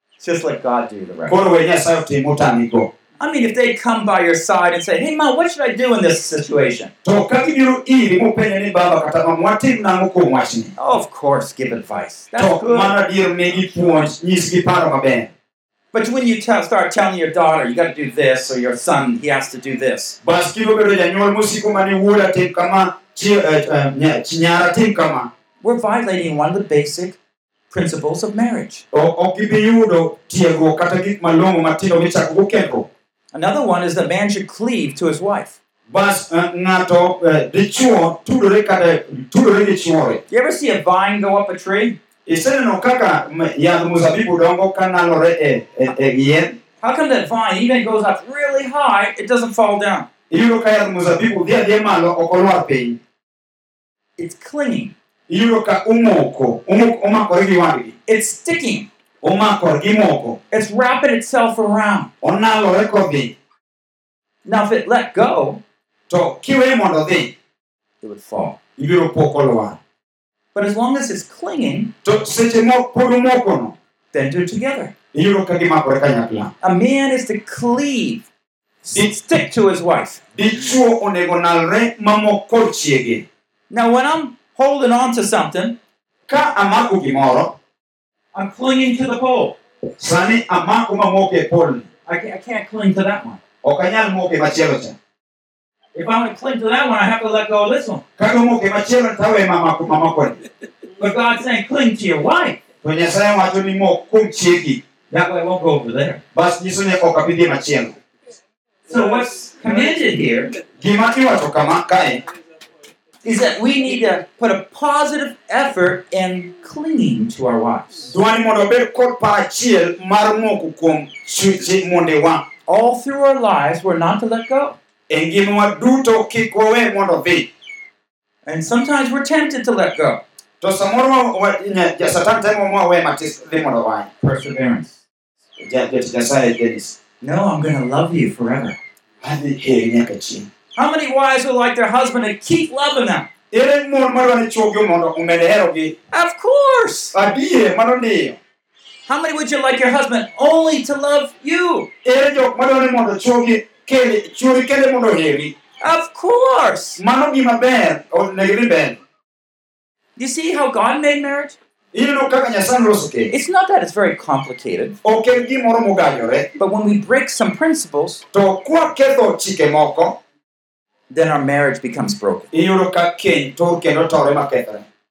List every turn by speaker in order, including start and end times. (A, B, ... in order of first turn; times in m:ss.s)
0:00.2-0:01.4 A
0:01.3-0:02.9 B
0:03.2-0:06.9 A
0:07.0-0:10.7 B
0:10.8-0:13.0 A
0:12.4-0:15.3 B
0:15.9-0:20.2 A
0:20.2-0:25.3 B
0:25.6-0:27.2 A
0:27.7-0:28.8 A
0:28.9-0:32.9 B
0:33.3-0:35.6 A
0:35.9-0:40.2 B
0:40.3-0:42.0 A
0:42.3-0:46.6 B
0:46.8-0:50.1 A
0:50.3-0:53.0 B
0:54.2-0:54.9 A
0:55.3-0:57.9 B
0:58.1-0:58.9 A
0:59.2-1:00.4 B
1:00.5-1:02.1 A
1:02.2-1:03.3 B
1:04.4-1:05.6 A
1:06.1-1:07.3 B
1:08.0-1:08.6 A
1:08.8-1:09.8 B
1:10.5-1:11.9 A
1:12.0-1:13.8 B
1:14.1-1:14.9 A
1:15.1-1:16.5 B
1:16.6-1:18.3 A
1:18.8-1:20.2 A
1:20.4-1:23.2 B
1:23.7-1:25.8 A
1:26.3-1:27.5 B
1:28.3-1:29.6 A
1:30.0-1:31.9 B
1:32.1-1:33.4 A
1:33.6-1:35.0 B
1:35.9-1:38.0 A
1:38.2-1:40.4 B
1:41.0-1:42.6 A
1:42.8-1:44.8 B
1:45.1-1:46.2 A
1:46.3-1:48.0 B
1:48.9-1:50.6 A
1:50.8-1:52.2 B
1:53.2-1:58.1 A
1:58.1-2:02.4 B
2:02.7-2:04.8 A
2:05.1-2:07.5 B
2:08.5-2:10.2 A
2:10.6-2:14.1 B
2:14.2-2:15.0 A
2:15.6-2:17.0 B
2:17.2-2:18.8 A
2:19.2-2:20.5 B
2:20.8-2:23.3 A
2:23.5-2:26.0 B
2:26.1-2:27.1 A
2:27.1-2:28.4 B
2:29.1-2:31.9 A
2:32.0-2:35.5 B
2:35.8-2:37.0 A
2:37.0-2:39.0 B
2:40.2-2:41.6 A
2:41.9-2:43.3 B
2:43.3-2:45.0 A
2:45.0-2:46.5 B
2:46.6-2:48.2 A
2:48.3-2:50.2 B
2:51.1-2:52.5 A
2:52.5-2:54.8 B